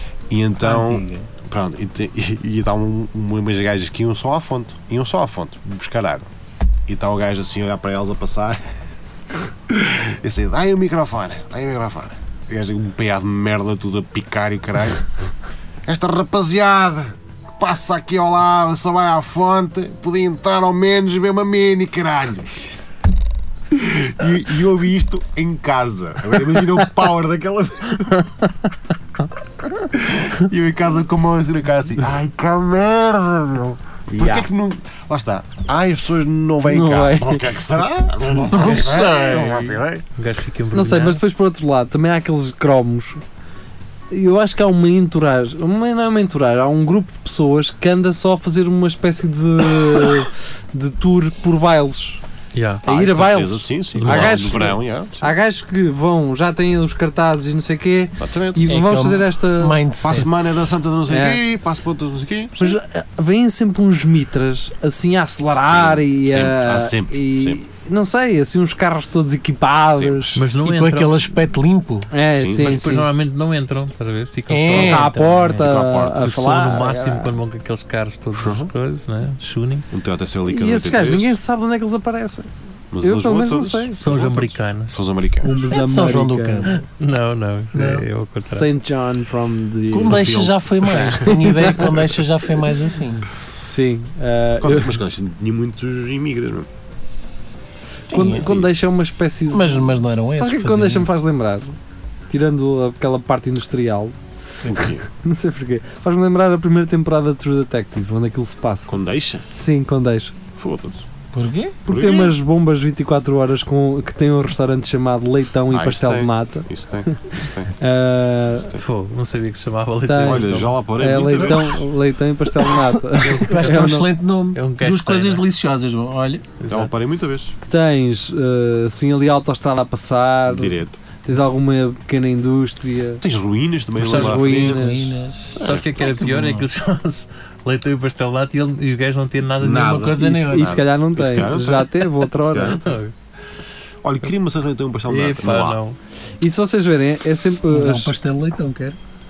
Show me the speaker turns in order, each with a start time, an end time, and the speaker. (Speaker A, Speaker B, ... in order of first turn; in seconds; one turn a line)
Speaker A: 0.3-6.3
Speaker B: 0.6-1.3
Speaker A: 6.9-8.6
Speaker A: 9.7-15.0
Speaker A: 15.9-22.8
Speaker A: 23.7-28.3
Speaker A: 29.9-40.0
Speaker C: 34.2-34.5
Speaker C: 36.7-37.6
Speaker B: 38.4-39.5
Speaker D: 38.6-41.2
Speaker C: 40.7-43.2
Speaker C: 44.1-52.2
Speaker D: 52.5-52.9
Speaker A: 52.9-55.3
Speaker C: 52.9-59.8
Speaker D: 54.0-54.6
Speaker A: 58.2-59.0
Speaker B: 58.7-60.6
Speaker A: 60.0-62.8
Speaker C: 61.1-61.4
Speaker C: 62.6-70.4
Speaker A: 65.5-67.6
Speaker A: 69.9-70.3
Speaker D: 70.3-71.3
Speaker B: 70.6-72.1
Speaker C: 72.1-73.1
Speaker A: 72.3-72.8
Speaker D: 72.6-79.9
Speaker B: 74.5-75.1
Speaker C: 74.7-77.3
Speaker A: 75.4-76.3
Speaker A: 78.4-78.7
Speaker A: 79.9-81.4
Speaker C: 80.5-82.5
Speaker A: 82.9-85.5
Speaker C: 83.0-84.0
Speaker D: 83.9-85.0
Speaker C: 85.4-86.8
Speaker B: 85.7-86.8
Speaker D: 86.7-88.7
Speaker B: 87.7-88.1
Speaker C: 88.4-91.9
Speaker A: 89.9-91.2
Speaker B: 89.9-93.2
Speaker C: 93.6-95.0
Speaker A: 94.6-96.7
Speaker B: 98.1-98.5
Speaker C: 98.1-101.8
Speaker A: 98.3-98.7
Speaker B: 99.5-101.2
Speaker C: 102.3-104.2
Speaker A: 104.7-105.1
Speaker C: 104.8-109.0
Speaker A: 108.9-109.5
Speaker C: 109.5-110.3
Speaker A: 110.6-111.1
Speaker B: 111.3-111.8
Speaker C: 111.9-118.7
Speaker A: 111.9-112.4
Speaker A: 115.7-117.7
Speaker D: 118.8-120.7
Speaker C: 120.1-124.1
Speaker A: 120.2-121.9
Speaker B: 121.4-121.7
Speaker B: 123.2-126.5
Speaker D: 124.5-125.5
Speaker D: 126.6-126.9
Speaker A: 126.7-127.5
Speaker C: 127.7-133.2
Speaker A: 130.5-131.0
Speaker A: 133.2-134.8
Speaker D: 134.0-134.8
Speaker C: 134.0-135.1
Speaker B: 134.7-136.7
Speaker A: 135.6-135.9
Speaker D: 135.6-140.1
Speaker A: 139.6-143.0
Speaker B: 139.7-140.8
Speaker C: 140.2-142.8
Speaker D: 142.7-143.1
Speaker A: 144.0-145.8
Speaker D: 145.1-146.0
Speaker C: 146.4-148.1
Speaker B: 147.7-149.0